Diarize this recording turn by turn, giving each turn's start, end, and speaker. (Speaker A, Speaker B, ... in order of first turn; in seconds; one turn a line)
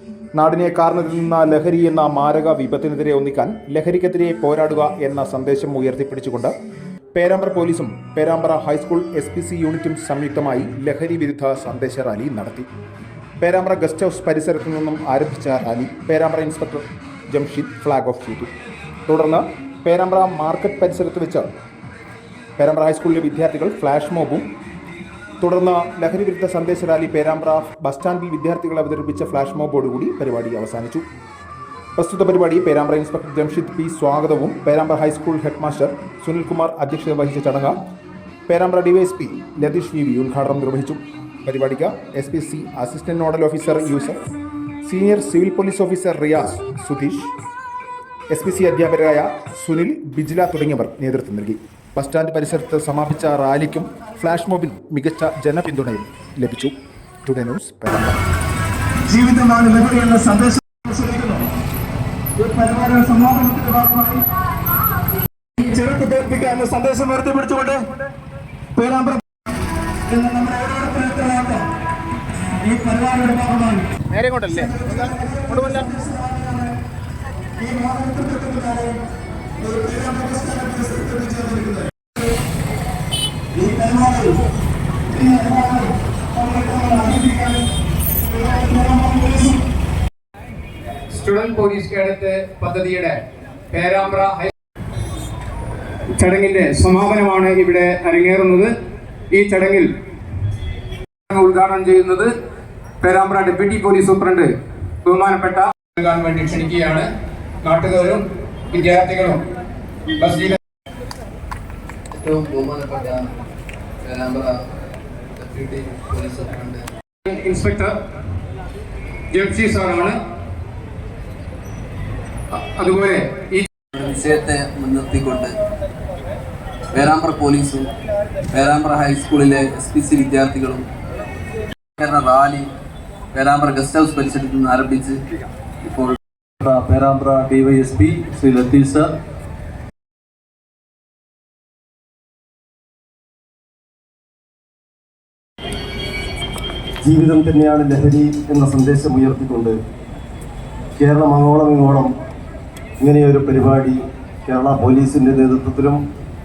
Speaker A: 0.3-6.5
Speaker A: 7.2-12.7
Speaker A: 13.4-18.5
Speaker A: 19.1-21.5
Speaker A: 22.6-24.5
Speaker A: 25.4-31.0
Speaker A: 32.0-37.8
Speaker A: 38.5-47.3
Speaker A: 48.3-56.7
Speaker A: 57.2-58.2
Speaker B: 59.0-61.5
Speaker B: 62.4-64.2
Speaker B: 65.6-67.9
Speaker B: 68.8-69.2
Speaker B: 70.1-71.6
Speaker B: 72.6-73.9
Speaker C: 74.3-74.7
Speaker B: 74.5-76.7
Speaker B: 77.6-79.0
Speaker B: 79.6-81.9
Speaker B: 83.5-84.4
Speaker B: 85.1-87.6
Speaker B: 88.2-89.6
Speaker C: 91.1-93.2
Speaker C: 93.7-94.5
Speaker C: 96.2-98.7
Speaker C: 99.3-99.9
Speaker C: 101.3-102.3
Speaker C: 103.0-104.5
Speaker C: 105.0-107.1
Speaker C: 107.6-109.4
Speaker C: 110.2-110.6
Speaker D: 112.1-113.3
Speaker D: 114.0-114.5
Speaker D: 115.4-116.9
Speaker C: 117.3-118.0
Speaker C: 119.3-120.2
Speaker C: 122.5-123.7
Speaker D: 123.9-125.5
Speaker D: 126.9-127.9
Speaker D: 128.5-130.8
Speaker D: 132.0-132.7
Speaker D: 133.3-135.2
Speaker D: 135.8-139.1
Speaker E: 147.0-149.8
Speaker E: 151.0-152.1
Speaker E: 153.0-156.0